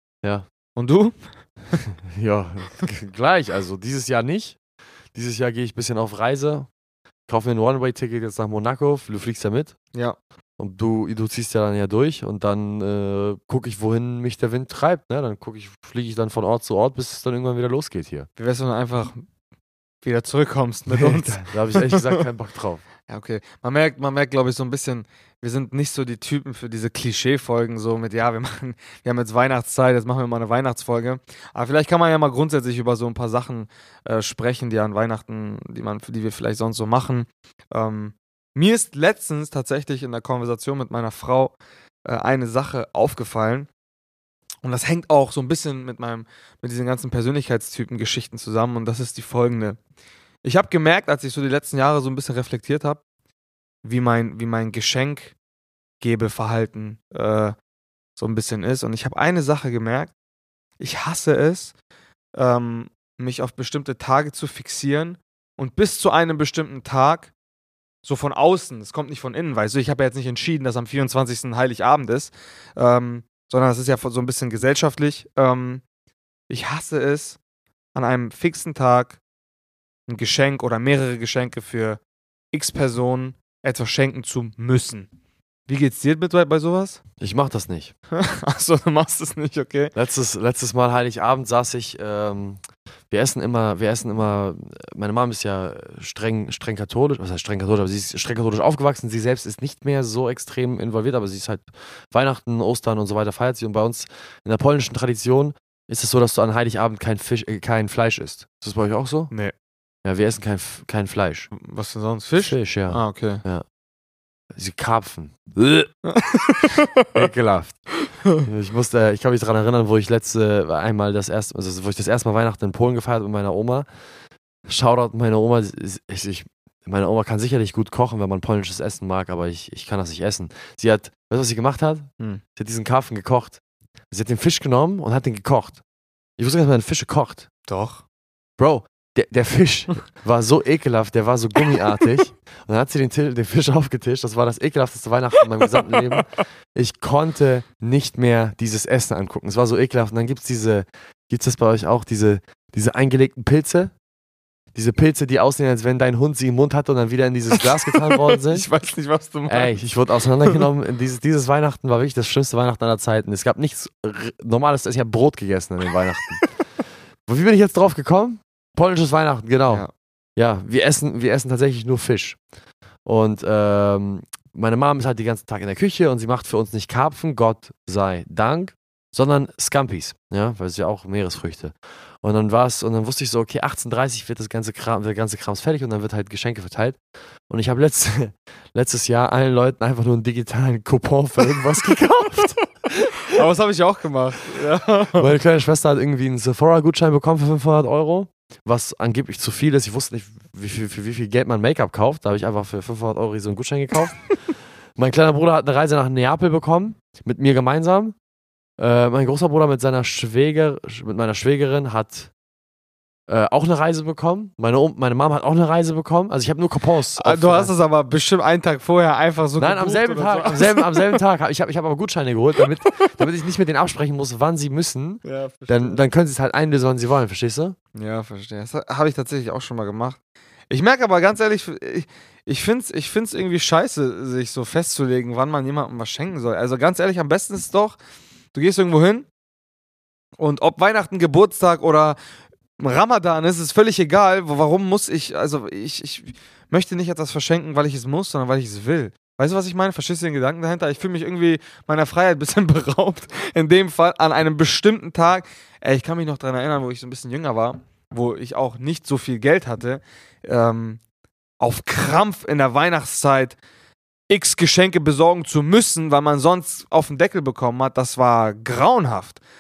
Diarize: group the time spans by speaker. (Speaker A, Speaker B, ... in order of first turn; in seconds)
Speaker A: 0.8-1.2, 18.4-19.2, 20.0-22.2, 23.1-43.7, 44.6-49.8, 50.4-53.0, 53.8-55.4, 56.0-57.5, 58.2-60.1, 60.8-61.8, 62.4-67.3, 68.0-75.8, 76.5-77.4, 77.9-79.2, 80.1-82.0, 82.5-85.1, 85.7-87.0, 88.2-89.9, 111.5-113.4, 116.1-117.1, 137.7-138.0, 158.2-159.8, 193.3-195.3, 217.2-221.2, 225.2-226.1, 227.9-230.2, 230.7-238.0, 238.5-239.3, 240.4-242.2, 242.8-261.0, 261.6-263.6, 264.3-269.4
Speaker B: 2.1-4.6, 5.1-6.7, 7.3-9.8, 10.6-18.3, 20.9-22.9, 87.2-87.9, 90.0-109.3, 110.0-111.5, 112.4-113.7, 114.5-115.9, 117.1-123.9, 124.7-133.6, 134.1-135.8, 136.4-137.5, 138.6-153.9, 154.8-158.7, 159.5-166.6, 167.3-172.4, 173.1-192.7, 195.2-204.3, 205.0-208.2, 208.8-212.3, 213.3-217.7, 219.6-227.8